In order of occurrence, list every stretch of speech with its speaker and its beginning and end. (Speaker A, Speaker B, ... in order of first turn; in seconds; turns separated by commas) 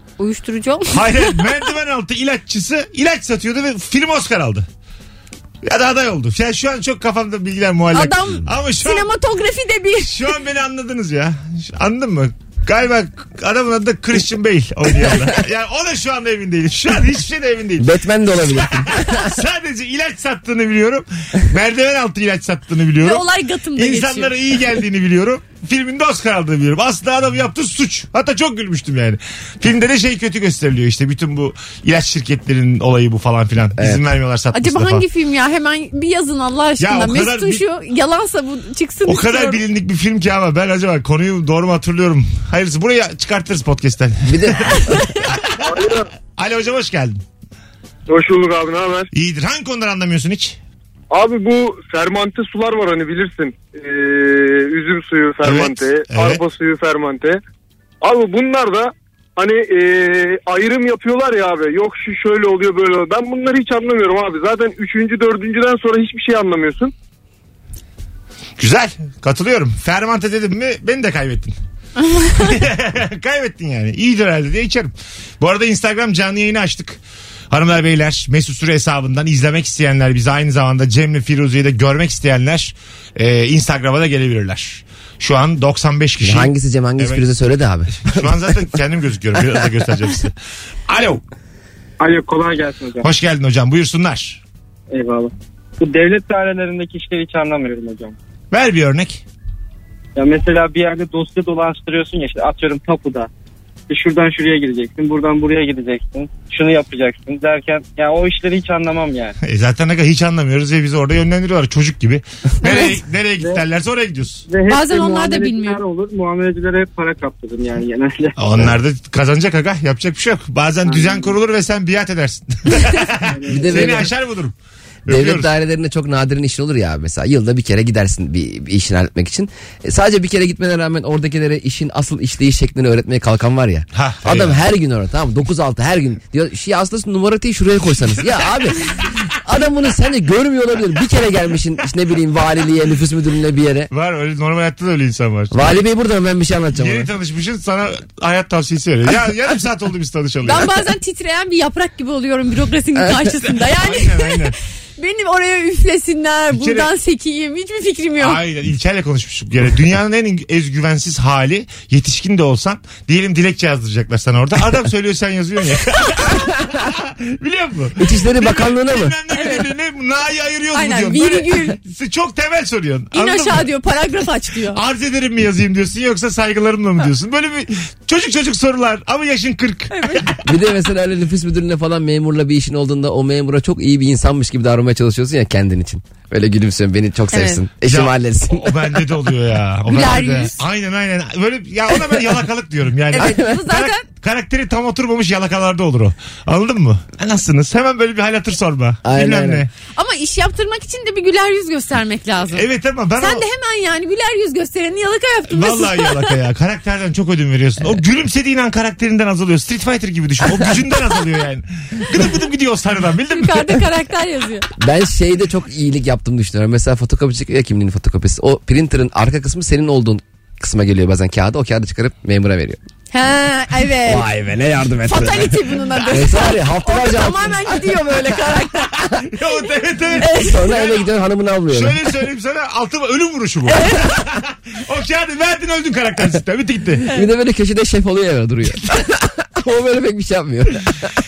Speaker A: 0.2-1.5, Speaker B: 0.9-4.7, Speaker B: 5.6-9.1, Speaker A: 7.9-10.2, Speaker B: 10.0-35.1, Speaker C: 17.8-19.2, Speaker A: 23.0-24.3, Speaker C: 33.8-34.0, Speaker A: 34.5-39.6, Speaker B: 36.8-37.6, Speaker B: 39.1-44.8, Speaker C: 44.3-44.9, Speaker A: 44.8-45.5, Speaker B: 46.4-47.2, Speaker D: 48.1-49.1, Speaker B: 49.1-50.6, Speaker D: 51.1-57.4, Speaker B: 55.4-56.4, Speaker D: 58.0-66.9, Speaker B: 68.6-71.5, Speaker B: 72.3-77.0, Speaker B: 77.5-87.3, Speaker C: 86.2-88.5, Speaker B: 88.0-90.3, Speaker B: 90.9-91.2, Speaker E: 92.0-93.1, Speaker B: 93.0-94.4, Speaker E: 94.9-98.2, Speaker B: 98.5-99.2, Speaker E: 100.2-103.3, Speaker E: 103.9-109.3, Speaker B: 109.4-114.4, Speaker E: 113.4-113.6, Speaker E: 114.5-118.7, Speaker A: 114.7-115.8, Speaker B: 118.4-124.5, Speaker E: 120.9-121.3, Speaker E: 123.2-124.1, Speaker C: 123.5-124.1, Speaker B: 125.1-125.5, Speaker C: 125.1-143.9, Speaker B: 133.9-134.6, Speaker B: 143.9-145.8, Speaker C: 145.5-147.1, Speaker B: 146.8-150.7, Speaker A: 150.4-154.4, Speaker B: 153.6-154.6, Speaker A: 155.0-158.4, Speaker B: 156.5-156.9, Speaker B: 158.2-173.7, Speaker C: 168.0-169.1, Speaker A: 169.3-169.7, Speaker A: 170.7-171.8, Speaker A: 173.1-174.8, Speaker B: 174.7-180.2, Speaker A: 179.9-180.4, Speaker C: 180.4-188.7, Speaker A: 187.3-187.6, Speaker B: 187.9-199.7, Speaker A: 189.9-190.6, Speaker A: 193.1-194.1, Speaker C: 193.2-193.6, Speaker C: 199.1-199.7, Speaker A: 199.9-202.6, Speaker B: 202.5-203.5, Speaker A: 203.2-206.3, Speaker B: 205.5-213.9, Speaker A: 213.3-214.7, Speaker C: 214.8-222.8, Speaker A: 223.1-224.3, Speaker C: 224.0-227.9, Speaker A: 225.0-229.5, Speaker B: 229.1-231.1, Speaker A: 230.2-230.7, Speaker C: 230.3-232.0, Speaker B: 231.7-237.1, Speaker A: 233.7-234.1, Speaker C: 237.1-240.9